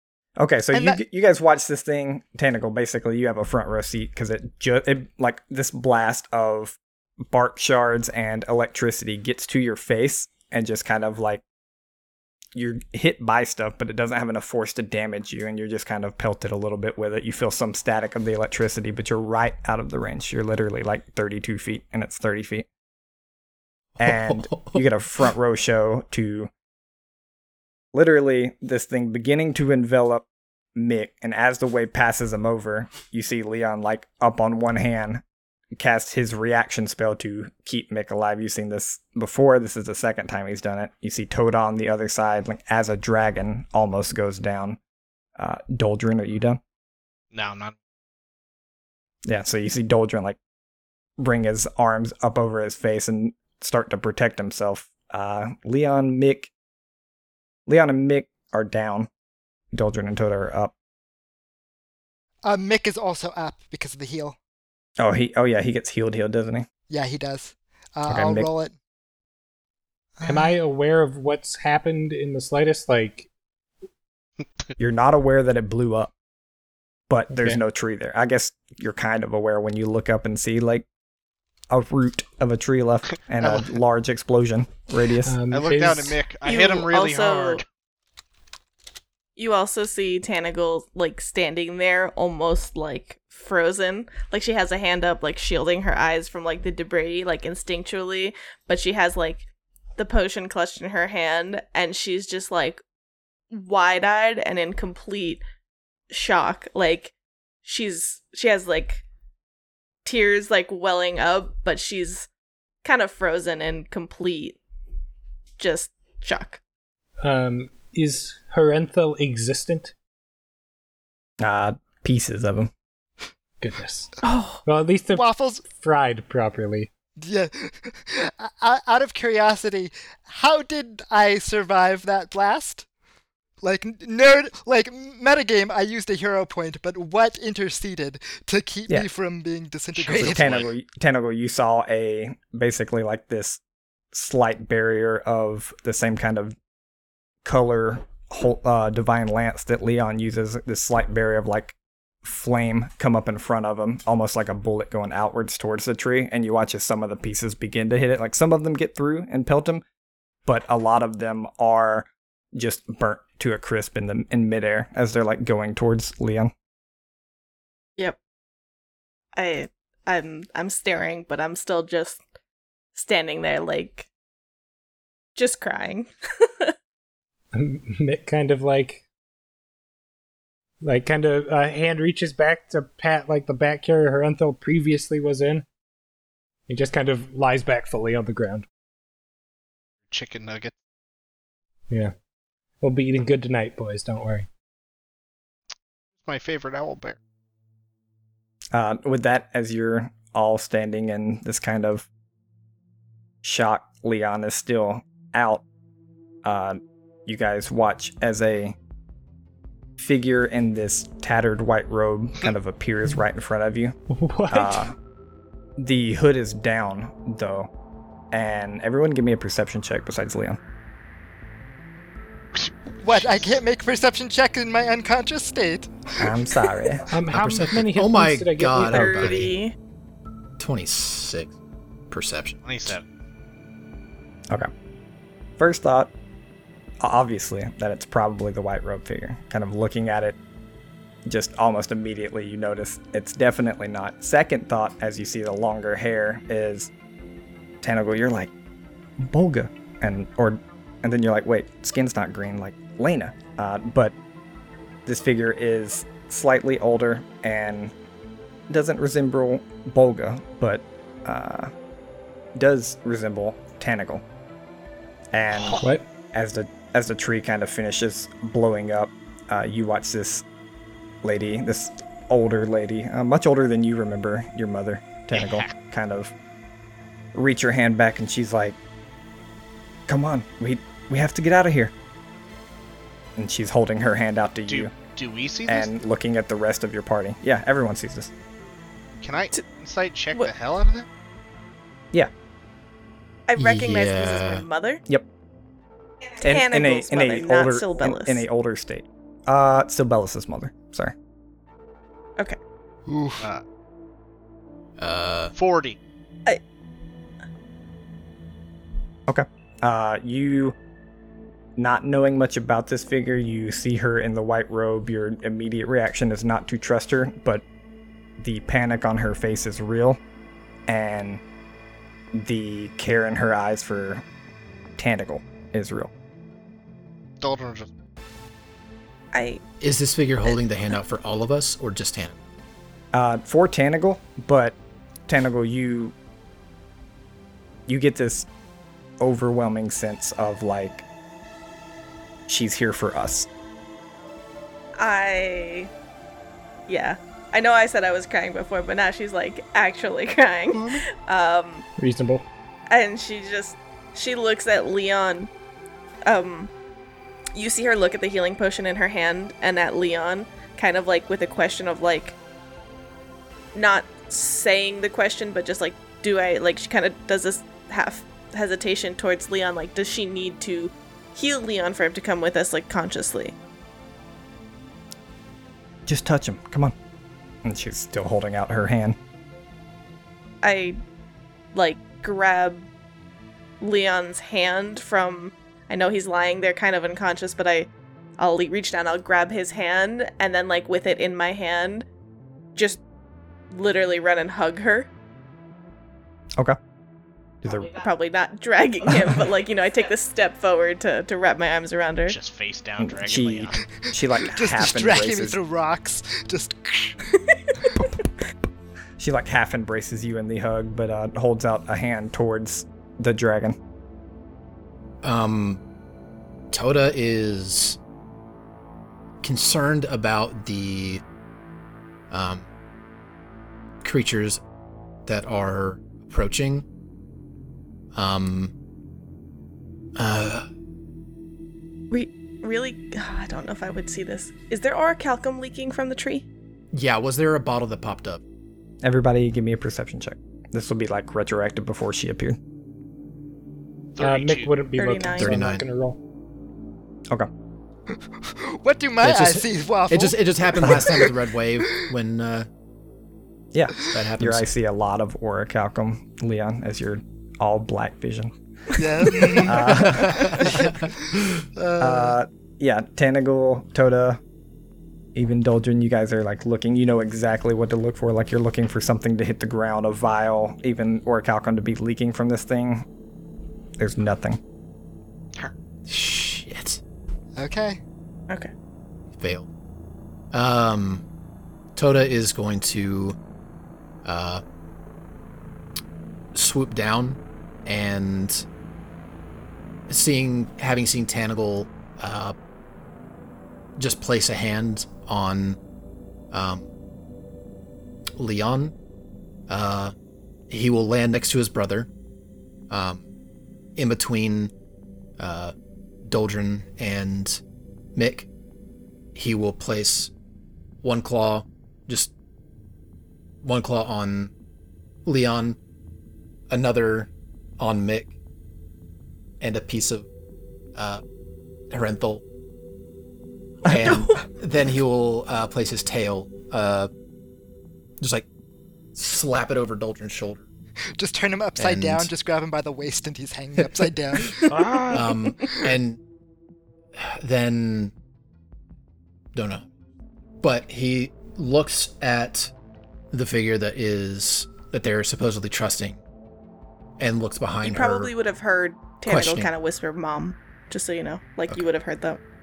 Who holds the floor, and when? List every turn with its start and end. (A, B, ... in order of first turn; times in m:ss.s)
0:00.4-0:06.8 A
0:00.7-0:01.0 B
0:07.3-0:11.4 A
0:12.5-0:22.7 A
0:24.0-0:24.8 C
0:24.0-0:26.5 A
0:27.9-0:35.2 A
0:35.8-0:44.8 A
0:45.4-0:46.6 A
0:47.3-0:47.7 D
0:49.2-0:50.4 A
0:51.2-0:56.5 A
0:57.7-0:59.1 A
0:59.7-1:00.7 A
1:02.4-1:04.4 B
1:05.0-1:06.7 A
1:06.9-1:08.7 B
1:08.1-1:08.5 A
1:10.2-1:10.5 B
1:10.2-1:13.3 E
1:14.4-1:14.7 D
1:14.8-1:16.1 A
1:17.1-1:20.8 A
1:17.3-1:17.6 E
1:21.7-1:25.4 A
1:23.1-1:23.7 D
1:25.2-1:26.2 E
1:25.5-1:27.6 D
1:26.4-1:27.6 F
1:29.4-1:39.4 F
1:40.0-1:42.8 F
1:43.5-1:45.4 F
1:46.1-1:47.1 F
1:47.6-1:49.0 F
1:50.0-1:52.3 F
1:52.8-1:54.6 F
1:55.6-1:56.6 F
1:57.2-1:59.9 E
2:01.4-2:02.7 A
2:03.6-2:04.1 E
2:04.2-2:04.6 F
2:04.6-2:06.9 E
2:05.1-2:05.6 B
2:07.2-2:12.8 B
2:13.6-2:20.5 B
2:19.9-2:20.7 D
2:20.2-2:23.6 A
2:24.1-2:26.6 A
2:27.4-2:39.8 A
2:40.4-2:46.5 A
2:49.3-2:52.2 F
2:52.9-2:54.1 F
2:55.4-2:56.7 F
2:57.5-2:59.0 E
3:00.8-3:05.6 E
3:06.7-3:08.6 E
3:10.1-3:10.7 D
3:12.8-3:14.5 E
3:16.2-3:17.2 D
3:18.7-3:22.1 A
3:23.4-3:25.6 A
3:26.4-3:28.8 A
3:30.0-3:34.0 A
3:34.1-3:34.9 E
3:34.5-3:34.9 A
3:35.8-3:37.7 A
3:38.3-3:40.6 A
3:42.5-3:43.5 D
3:43.0-3:46.3 B
3:46.2-3:47.1 A
3:47.1-3:49.4 E
3:47.3-3:49.5 C
3:48.8-3:49.7 F
3:50.6-3:51.5 C
3:52.1-3:53.0 C
3:52.6-3:53.0 D
3:55.6-3:56.1 A
3:57.0-4:00.4 A
4:01.2-4:06.9 A
4:07.8-4:08.5 A
4:09.2-4:14.1 A
4:15.0-4:17.9 A
4:18.7-4:21.7 A
4:22.5-4:24.2 A
4:25.3-4:30.4 A
4:25.5-4:25.9 D
4:25.8-4:26.0 E
4:31.2-4:36.3 A
4:35.3-4:35.7 D
4:37.3-4:38.8 A
4:40.1-4:41.9 A
4:43.4-4:44.9 A
4:44.7-4:45.9 D
4:45.6-4:48.3 A
4:49.2-4:51.1 D
4:53.5-4:55.0 F
4:53.6-4:54.6 C
4:56.3-4:58.4 F
4:56.4-5:01.1 A
5:03.1-5:03.4 B
5:05.0-5:05.5 C
5:05.6-5:06.0 D
5:09.3-5:10.8 A
5:11.8-5:17.6 A
5:18.4-5:20.2 A
5:20.9-5:21.4 A
5:22.3-5:24.2 A
5:25.0-5:26.1 A
5:27.4-5:27.9 D
5:29.3-5:29.6 F
5:29.8-5:32.4 C
5:33.1-5:36.1 A
5:37.9-5:38.5 A
5:39.2-5:41.0 A
5:42.5-5:43.5 A
5:45.0-5:45.9 F
5:46.9-5:51.8 F
5:52.0-5:52.4 E
5:52.9-5:55.5 F
5:56.2-5:56.7 F
5:57.5-6:02.4 F
6:03.7-6:13.6 F
6:16.0-6:16.9 A
6:17.6-6:19.2 A
6:20.6-6:21.0 F
6:21.7-6:22.9 F
6:23.8-6:32.0 F
6:32.7-6:33.0 F
6:33.7-6:35.1 F
6:37.6-6:37.9 A
6:37.7-6:42.4 F
6:42.3-6:43.8 D
6:43.0-6:45.6 A
6:44.4-6:47.2 B
6:47.6-6:48.0 F
6:49.2-6:53.8 A
6:55.2-6:55.8 C
6:56.7-6:58.0 C
6:59.4-7:01.2 C
7:02.3-7:02.7 C
7:04.0-7:04.6 C
7:05.2-7:06.8 C
7:08.1-7:08.7 C
7:10.2-7:10.7 C
7:12.1-7:16.4 F
7:16.9-7:18.4 C
7:19.0-7:22.6 A
7:24.2-7:24.8 D
7:24.2-7:26.2 E
7:25.0-7:25.5 F
7:25.4-7:25.8 C
7:28.1-7:31.4 B
7:29.2-7:32.7 C
7:33.7-7:38.5 A
7:34.1-7:34.7 C
7:38.9-7:42.4 B
7:39.6-7:40.7 A
7:39.6-7:41.6 C
7:42.0-7:44.4 A
7:45.3-7:53.0 A
7:54.0-7:54.6 A
7:56.1-7:57.0 C
7:57.6-7:58.0 B
7:59.3-7:59.7 C
8:00.5-8:01.2 C
8:02.0-8:03.4 C
8:04.2-8:04.6 C
8:06.5-8:08.6 C
8:10.1-8:12.5 C
8:14.0-8:15.8 C
8:16.5-8:16.9 C
8:18.4-8:18.9 C
8:19.7-8:20.1 C
8:20.7-8:22.1 C
8:22.9-8:23.2 C
8:24.0-8:24.7 C
8:25.4-8:25.7 C
8:26.3-8:27.6 C
8:28.2-8:28.5 C
8:29.3-8:30.3 C
8:31.0-8:32.3 C
8:33.6-8:34.5 C
8:35.2-8:35.8 C
8:36.7-8:38.3 C
8:39.6-8:40.3 C
8:40.9-8:41.2 C
8:41.9-8:42.4 C
8:43.8-8:47.1 C
8:48.2-8:48.5 C
8:49.1-8:50.6 C
8:51.2-8:54.7 B
8:51.8-8:52.3 C
8:54.7-8:55.5 E
8:55.1-8:56.2 C
8:55.6-8:56.0 B
8:57.2-8:58.1 C
8:59.5-8:59.8 C
9:00.6-9:02.7 C
9:03.3-9:06.2 C
9:07.2-9:08.3 C
9:07.8-9:12.4 F
9:09.2-9:09.7 C